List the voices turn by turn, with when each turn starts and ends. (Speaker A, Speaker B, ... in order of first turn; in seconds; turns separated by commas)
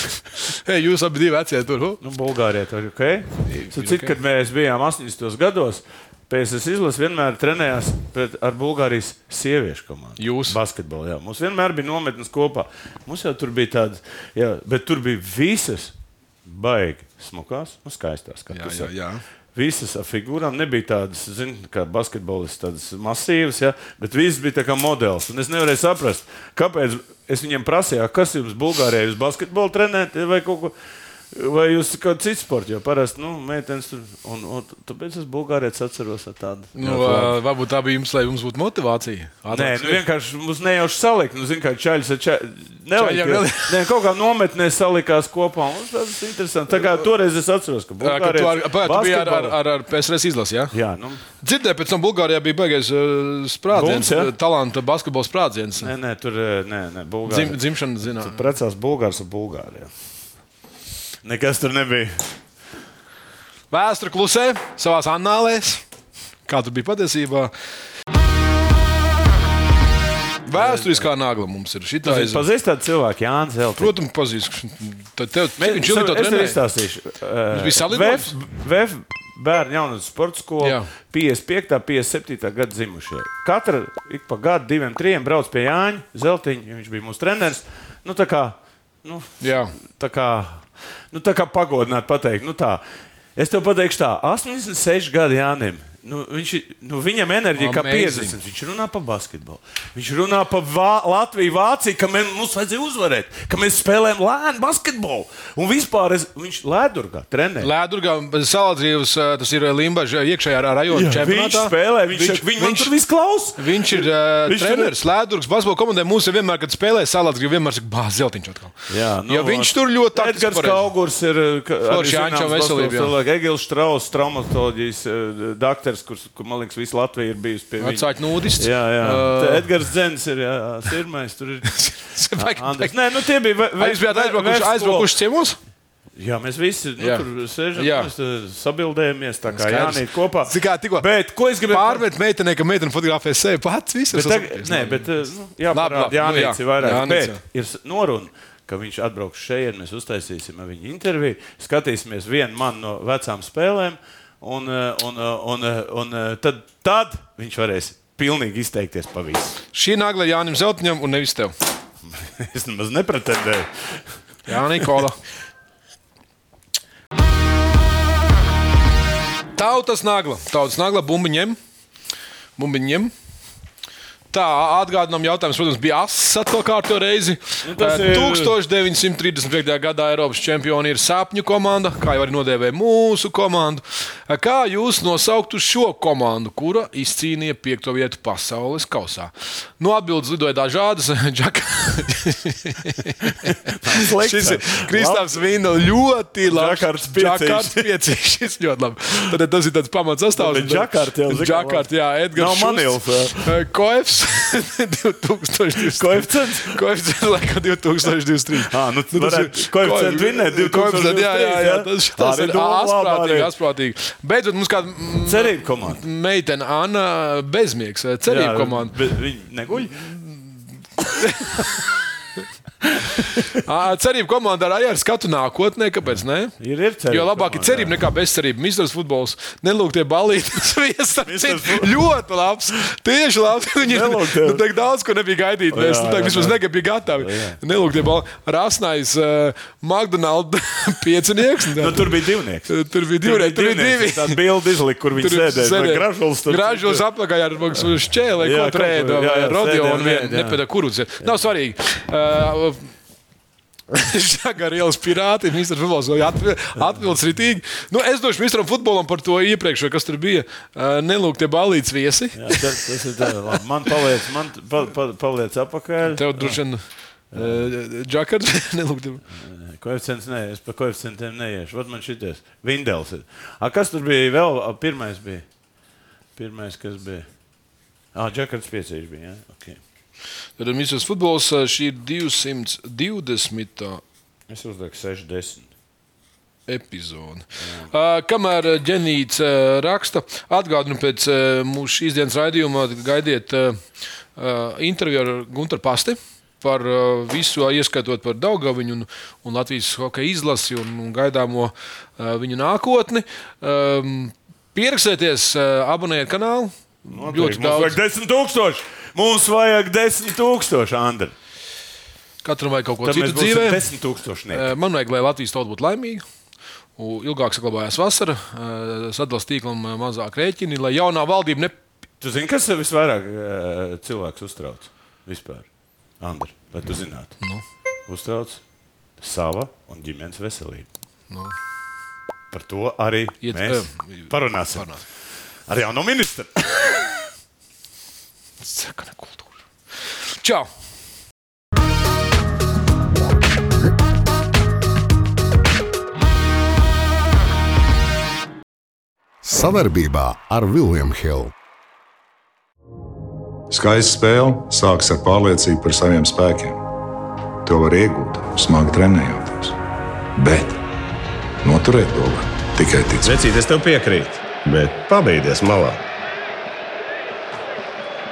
Speaker A: 0.4-2.0, Speaker B: 2.0-15.9, Speaker A: 3.5-4.1, Speaker A: 10.2-10.6, Speaker B: 16.4-18.9, Speaker A: 18.5-19.2, Speaker B: 19.6-30.7, Speaker B: 31.3-37.3, Speaker A: 36.8-40.0, Speaker B: 39.5-49.6, Speaker A: 42.9-43.8, Speaker A: 48.0-50.8, Speaker B: 50.7-51.2, Speaker A: 51.4-55.9, Speaker B: 53.7-54.3, Speaker B: 55.8-59.9, Speaker A: 57.3-58.5, Speaker B: 61.2-62.3, Speaker A: 63.7-65.8, Speaker A: 66.5-67.5, Speaker A: 70.5-72.4, Speaker B: 70.6-71.1, Speaker B: 72.0-73.9, Speaker A: 73.8-76.6, Speaker B: 75.6-92.8, Speaker A: 77.5-78.3, Speaker A: 80.6-80.9, Speaker A: 89.4-89.7, Speaker B: 93.4-107.7, Speaker A: 97.6-98.4, Speaker A: 107.6-112.9, Speaker B: 110.9-114.9, Speaker A: 113.6-120.9, Speaker B: 118.9-131.8, Speaker A: 121.9-123.1, Speaker A: 127.8-129.7, Speaker A: 131.7-132.9, Speaker B: 132.4-135.1, Speaker A: 133.8-135.6, Speaker B: 136.2-142.0, Speaker A: 137.0-137.2, Speaker A: 137.8-138.1, Speaker A: 139.5-141.1, Speaker A: 141.7-145.1, Speaker B: 144.1-159.6, Speaker A: 145.7-147.4, Speaker A: 159.7-161.6, Speaker B: 162.1-163.7, Speaker A: 164.5-165.2, Speaker A: 169.6-171.6, Speaker A: 172.6-173.1, Speaker A: 174.3-218.9, Speaker B: 177.6-178.6, Speaker B: 193.4-195.4, Speaker B: 196.5-197.9, Speaker B: 200.4-203.5, Speaker B: 205.9-206.8, Speaker B: 208.6-213.5, Speaker B: 215.3-216.0, Speaker B: 218.2-220.1, Speaker A: 219.8-220.5, Speaker A: 221.2-221.8, Speaker B: 222.8-223.4, Speaker A: 223.5-226.6, Speaker B: 226.6-227.9, Speaker A: 227.1-242.1, Speaker B: 231.2-232.0, Speaker B: 233.8-234.6, Speaker B: 235.7-236.6, Speaker B: 237.2-237.6, Speaker B: 241.8-247.1, Speaker A: 242.7-244.4, Speaker A: 245.2-252.9, Speaker B: 248.4-250.6, Speaker A: 253.9-263.0, Speaker B: 262.4-266.6, Speaker A: 266.1-269.2, Speaker B: 267.3-267.6, Speaker B: 269.4-275.4, Speaker B: 276.4-277.2, Speaker B: 278.1-279.8, Speaker A: 280.6-284.0, Speaker B: 284.5-285.7, Speaker A: 286.7-293.8, Speaker B: 287.6-287.9, Speaker A: 294.4-308.0, Speaker B: 307.1-311.3, Speaker A: 312.4-313.8, Speaker B: 313.0-314.7, Speaker A: 314.5-316.2, Speaker A: 317.0-321.8, Speaker B: 322.2-325.7, Speaker B: 326.2-327.4, Speaker B: 328.1-328.6, Speaker B: 329.2-330.9, Speaker B: 332.5-334.9, Speaker A: 333.4-335.0, Speaker B: 335.7-337.2, Speaker A: 338.6-339.5, Speaker A: 340.1-340.7, Speaker C: 349.5-351.5, Speaker D: 353.7-356.8, Speaker D: 357.6-359.8, Speaker D: 360.4-360.8, Speaker D: 361.6-363.4, Speaker E: 363.4-366.0